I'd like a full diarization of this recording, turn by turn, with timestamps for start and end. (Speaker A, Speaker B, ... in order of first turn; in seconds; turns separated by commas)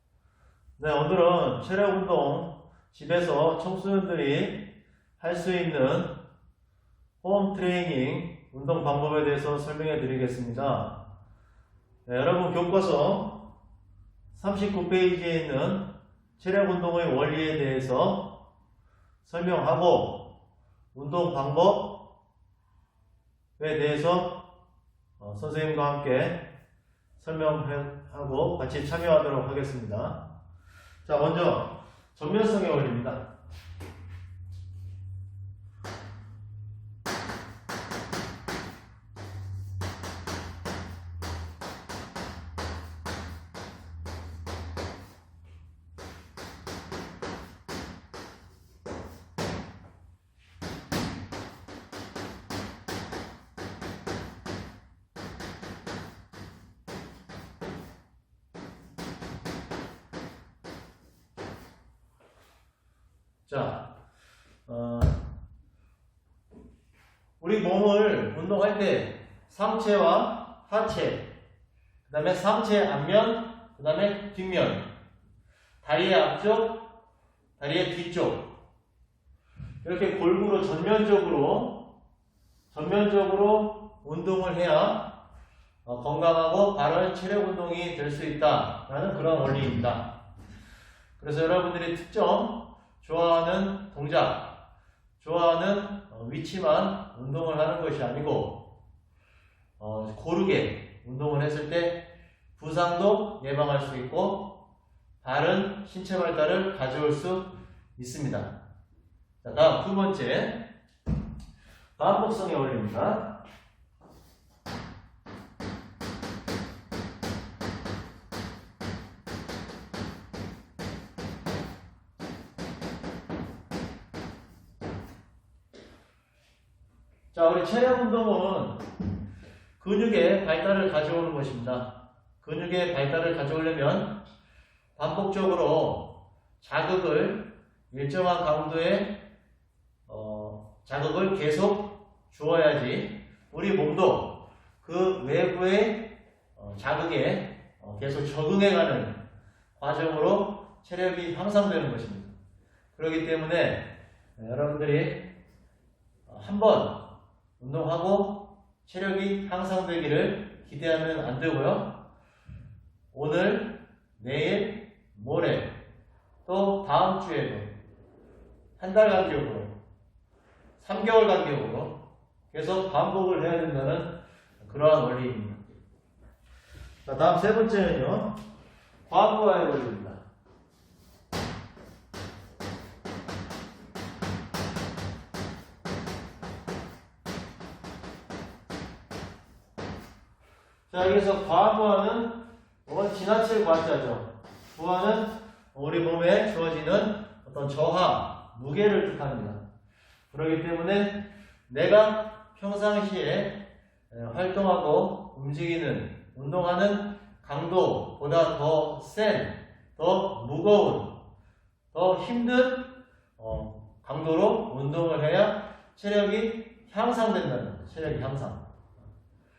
Speaker A: 0.8-4.7, Speaker A: 5.2-6.2, Speaker A: 7.2-11.0, Speaker A: 12.1-13.4, Speaker A: 14.3-18.4, Speaker A: 19.2-20.3, Speaker A: 20.9-22.0, Speaker A: 23.6-24.4, Speaker A: 25.2-26.4, Speaker A: 27.2-30.2, Speaker A: 31.0-33.2, Speaker A: 63.5-63.9, Speaker A: 64.7-65.2, Speaker A: 67.4-71.3, Speaker A: 72.0-74.9, Speaker A: 75.8-76.9, Speaker A: 77.6-78.5, Speaker A: 79.8-81.8, Speaker A: 82.7-85.1, Speaker A: 85.8-90.1, Speaker A: 91.2-94.5, Speaker A: 95.2-98.6, Speaker A: 99.8-102.0, Speaker A: 102.5-104.5, Speaker A: 105.2-108.5, Speaker A: 109.4-110.7, Speaker A: 112.0-113.4, Speaker A: 127.3-128.8, Speaker A: 129.8-131.9, Speaker A: 132.4-134.2, Speaker A: 134.9-139.2, Speaker A: 140.1-149.2, Speaker A: 149.8-152.3, Speaker A: 152.9-155.2, Speaker A: 156.2-157.1, Speaker A: 157.6-162.0, Speaker A: 163.1-165.8, Speaker A: 166.4-167.8, Speaker A: 168.8-169.8, Speaker A: 170.8-175.6, Speaker A: 177.0-178.3, Speaker A: 179.1-180.2, Speaker A: 190.9-199.6, Speaker A: 200.3-211.1, Speaker A: 211.9-218.7